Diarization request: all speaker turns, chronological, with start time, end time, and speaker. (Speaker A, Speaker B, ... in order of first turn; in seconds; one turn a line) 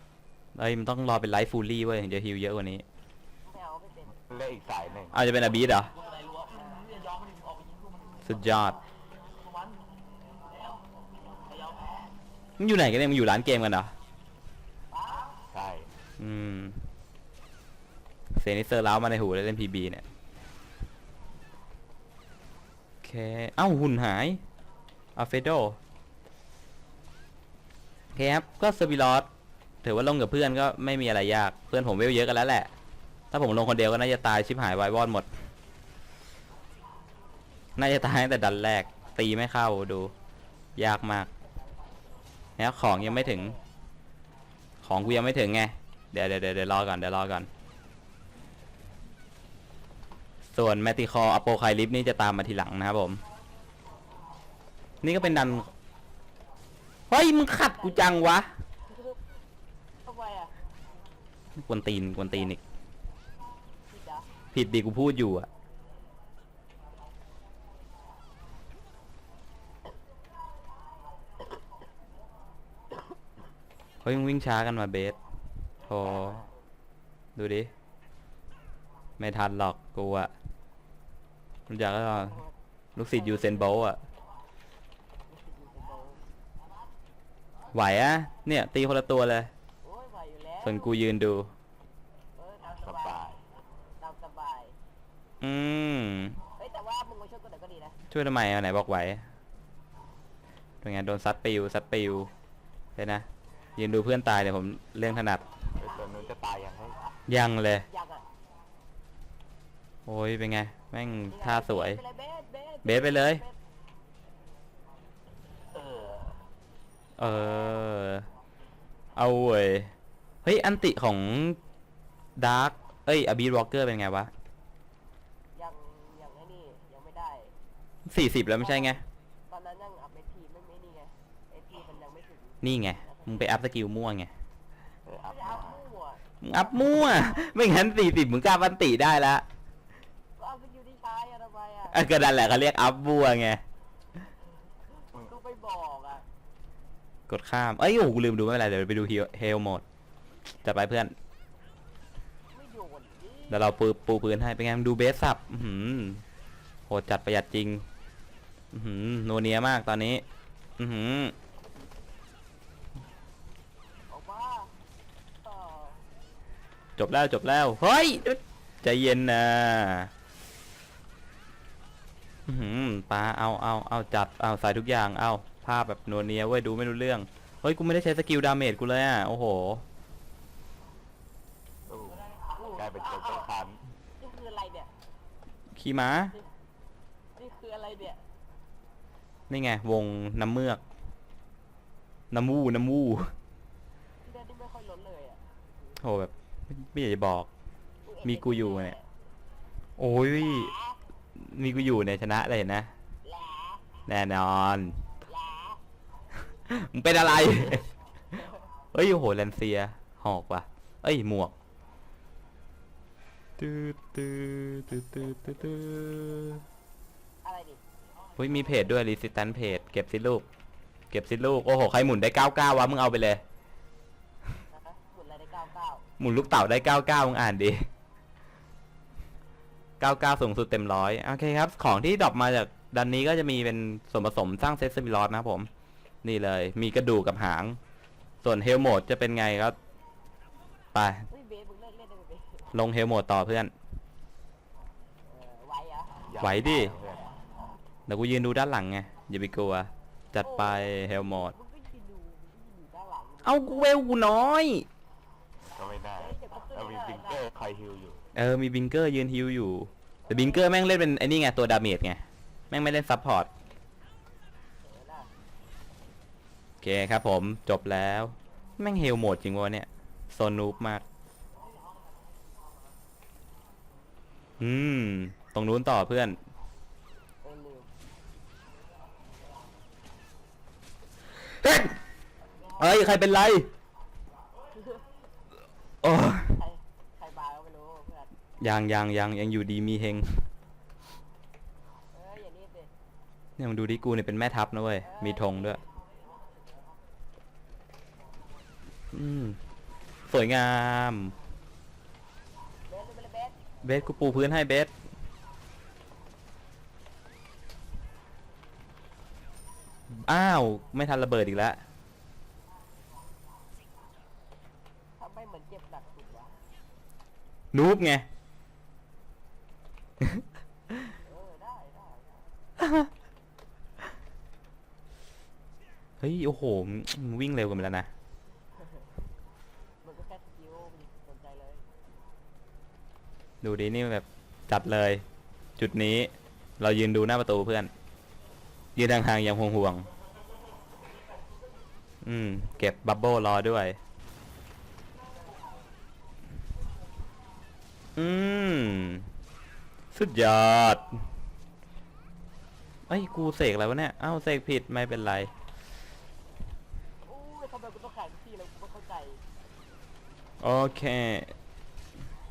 Speaker A: 0.6-2.8
Speaker B: 3.4-4.2
Speaker C: 4.3-5.2
Speaker A: 5.1-5.9
Speaker B: 6.3-7.0
Speaker A: 8.2-8.8
Speaker A: 12.6-13.9
Speaker B: 14.9-15.3
Speaker C: 15.5-15.9
Speaker A: 16.2-16.8
Speaker A: 18.3-20.0
Speaker A: 23.0-24.4
Speaker A: 25.2-25.8
Speaker A: 28.1-29.3
Speaker A: 29.8-32.7
Speaker A: 33.3-35.3
Speaker A: 37.8-40.1
Speaker A: 40.8-41.3
Speaker A: 42.6-43.6
Speaker B: 42.9-43.6
Speaker A: 44.8-47.5
Speaker A: 50.5-53.2
Speaker A: 55.0-55.7
Speaker A: 57.1-58.5
Speaker B: 57.8-58.2
Speaker B: 58.9-59.2
Speaker B: 60.0-60.5
Speaker A: 61.6-62.6
Speaker B: 63.9-64.3
Speaker A: 64.5-65.5
Speaker A: 74.0-75.2
Speaker A: 75.9-76.5
Speaker A: 77.4-77.7
Speaker A: 79.2-80.3
Speaker A: 81.7-82.4
Speaker B: 82.1-82.5
Speaker A: 83.0-84.0
Speaker B: 83.4-83.7
Speaker B: 85.3-86.2
Speaker A: 87.7-89.5
Speaker B: 89.8-91.0
Speaker A: 90.6-91.5
Speaker B: 92.3-93.2
Speaker C: 92.8-93.4
Speaker B: 94.0-94.8
Speaker A: 95.4-96.4
Speaker B: 96.5-98.0
Speaker A: 98.1-99.2
Speaker A: 100.8-102.3
Speaker A: 103.0-103.2
Speaker A: 103.8-105.4
Speaker C: 105.8-107.1
Speaker A: 107.3-107.9
Speaker B: 107.9-108.2
Speaker A: 110.1-112.0
Speaker B: 111.3-113.6
Speaker A: 112.8-113.4
Speaker B: 115.8-116.2
Speaker A: 117.2-118.3
Speaker A: 119.2-119.9
Speaker A: 120.4-121.6
Speaker A: 122.4-124.3
Speaker B: 125.5-127.5
Speaker A: 128.1-129.0
Speaker B: 128.6-133.4
Speaker A: 132.6-134.3
Speaker C: 135.1-135.8
Speaker B: 135.2-137.6
Speaker A: 136.4-139.4
Speaker B: 140.4-142.0
Speaker A: 141.9-143.6
Speaker B: 145.0-146.2
Speaker A: 147.3-149.8
Speaker A: 150.6-151.1
Speaker B: 152.5-153.7
Speaker A: 153.5-156.2
Speaker A: 156.9-157.8
Speaker A: 158.7-160.2
Speaker A: 160.8-161.3
Speaker B: 164.1-164.7
Speaker B: 165.4-166.0
Speaker A: 167.0-170.1
Speaker A: 172.5-179.8
Speaker C: 181.9-183.8
Speaker B: 182.6-183.5
Speaker B: 184.2-184.9
Speaker A: 185.7-186.4
Speaker B: 187.4-188.2
Speaker A: 189.5-190.8
Speaker A: 192.3-193.3
Speaker B: 194.2-195.4
Speaker A: 196.0-197.5
Speaker B: 198.1-199.1
Speaker A: 198.2-198.9
Speaker A: 200.0-200.7
Speaker B: 200.4-201.0
Speaker A: 201.3-202.9
Speaker B: 203.2-203.8
Speaker A: 204.1-205.0
Speaker B: 205.2-205.8
Speaker A: 206.7-207.9
Speaker A: 208.9-211.6
Speaker A: 213.6-216.6
Speaker B: 217.4-217.8
Speaker A: 218.4-220.4
Speaker A: 221.1-223.4
Speaker B: 224.7-226.0
Speaker A: 226.2-227.9
Speaker A: 230.0-235.7
Speaker A: 236.2-237.8
Speaker A: 238.4-239.8
Speaker A: 240.9-241.3
Speaker B: 241.3-242.7
Speaker A: 242.7-243.7
Speaker B: 245.2-246.3
Speaker C: 246.2-247.4
Speaker A: 246.4-246.9
Speaker A: 248.1-251.6
Speaker B: 250.4-254.2
Speaker A: 253.4-254.9
Speaker C: 255.7-258.2
Speaker B: 256.2-257.4
Speaker A: 258.4-263.5
Speaker B: 260.2-260.7
Speaker B: 264.8-265.3
Speaker A: 266.8-271.0
Speaker A: 274.6-276.4
Speaker B: 277.4-277.9
Speaker A: 281.6-282.0
Speaker A: 282.8-283.7
Speaker A: 286.0-286.6
Speaker B: 286.6-288.3
Speaker A: 288.6-290.5
Speaker B: 292.1-292.9
Speaker A: 293.6-295.8
Speaker B: 295.0-295.8
Speaker A: 299.1-299.6
Speaker A: 300.3-301.4
Speaker B: 302.9-303.7
Speaker A: 303.8-304.9
Speaker A: 310.1-311.8
Speaker B: 315.2-316.6
Speaker A: 317.7-318.2
Speaker B: 321.2-322.5
Speaker A: 322.8-323.1
Speaker A: 326.2-328.1
Speaker B: 330.0-331.8
Speaker A: 333.6-335.2
Speaker A: 335.8-337.9
Speaker A: 338.9-340.1
Speaker A: 342.2-344.0
Speaker A: 348.2-349.3
Speaker A: 350.1-351.1
Speaker A: 353.1-355.5
Speaker B: 357.2-359.4
Speaker A: 360.6-361.5